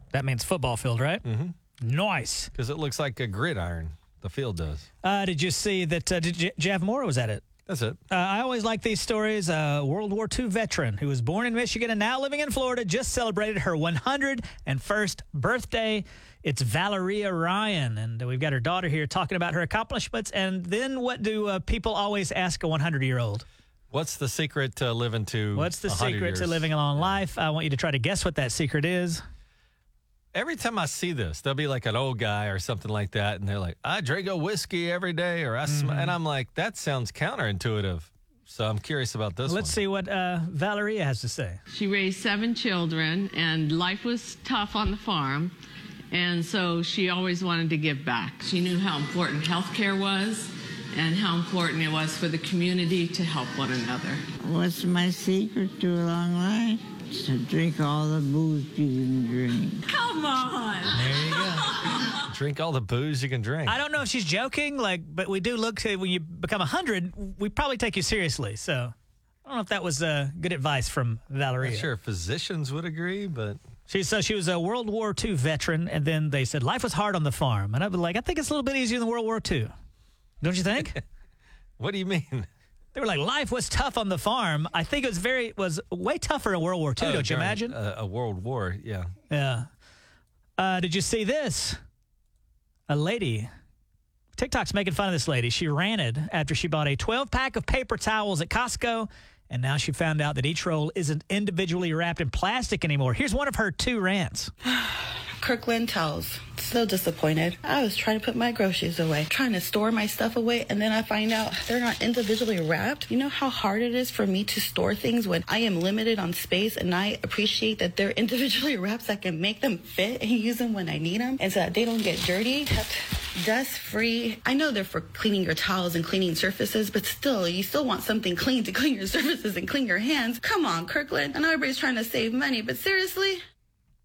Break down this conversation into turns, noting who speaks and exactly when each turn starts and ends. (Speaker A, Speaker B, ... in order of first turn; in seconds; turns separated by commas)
Speaker A: 0.1-1.2, Speaker B: 1.2-1.6, Speaker A: 1.8-2.5, Speaker B: 2.5-4.9, Speaker A: 5.0-7.4, Speaker B: 7.7-8.0, Speaker A: 8.1-23.4, Speaker B: 23.9-27.2, Speaker A: 25.6-29.2, Speaker B: 30.3-39.8, Speaker A: 35.7-36.1, Speaker A: 39.5-41.6, Speaker C: 41.7-45.5, Speaker C: 46.1-54.2, Speaker D: 54.4-59.8, Speaker C: 59.9-62.1, Speaker A: 60.9-61.7, Speaker B: 62.2-63.8, Speaker A: 63.7-68.9, Speaker A: 69.5-71.9, Speaker B: 71.6-73.6, Speaker A: 73.9-79.7, Speaker A: 80.4-81.0, Speaker B: 81.8-82.5, Speaker A: 83.0-87.8, Speaker B: 87.0-89.1, Speaker A: 89.3-89.7, Speaker A: 90.6-91.8, Speaker A: 92.9-93.5, Speaker A: 94.4-104.5, Speaker E: 104.7-133.4